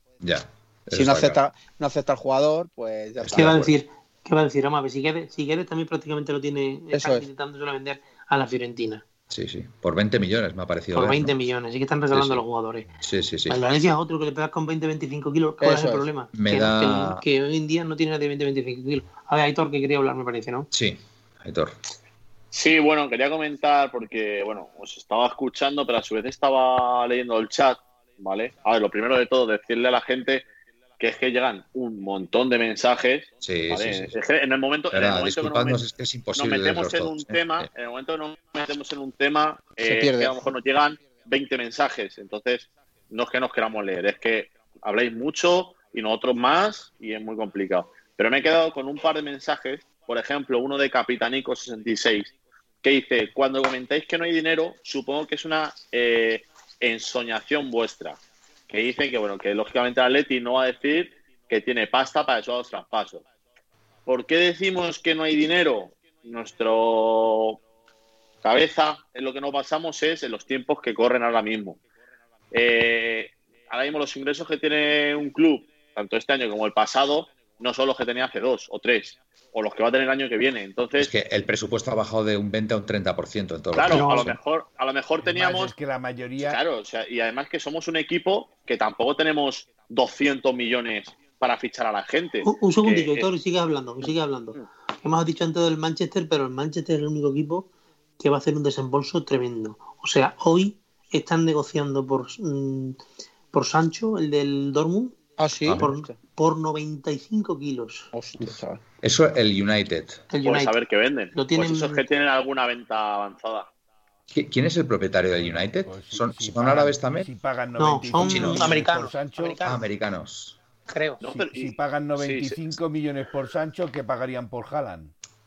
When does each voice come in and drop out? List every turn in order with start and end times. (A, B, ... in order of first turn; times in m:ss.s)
0:00.2-0:01.4 A
0:00.9-0:03.6 B
0:03.2-0:03.8 A
0:03.3-0:09.0 C
0:06.9-0:07.3 B
0:09.3-0:11.3 A
0:10.9-0:12.9 C
0:12.1-0:12.4 A
0:13.0-0:13.6 A
0:13.4-0:20.7 C
0:15.6-0:16.1 B
0:16.3-0:17.2 A
0:20.7-0:21.8 A
0:22.5-0:30.4 D
0:31.0-0:35.8 D
0:33.4-0:34.2 A
0:34.9-0:37.7 A
0:36.4-0:52.3 D
0:39.8-0:40.3 B
0:52.8-1:03.2 D
1:04.0-1:07.6 D
1:08.4-1:11.8 D
1:12.5-1:21.1 D
1:21.0-1:24.4 A
1:23.7-1:25.7 D
1:23.9-1:24.3 C
1:25.2-1:26.6 E
1:26.4-1:33.3 D
1:32.4-1:43.0 C
1:43.5-1:48.1 C
1:45.4-1:46.1 B
1:48.1-1:48.8 B
1:49.0-1:50.2 A
1:50.3-1:50.7 C
1:50.4-1:53.7 D
1:51.3-1:52.0 C
1:54.3-1:57.3 A
1:55.3-1:59.6 E
1:57.8-1:59.8 C
1:58.2-1:58.8 A
1:59.6-2:00.6 A
2:00.9-2:01.2 C
2:01.2-2:02.6 D
2:01.2-2:05.1 E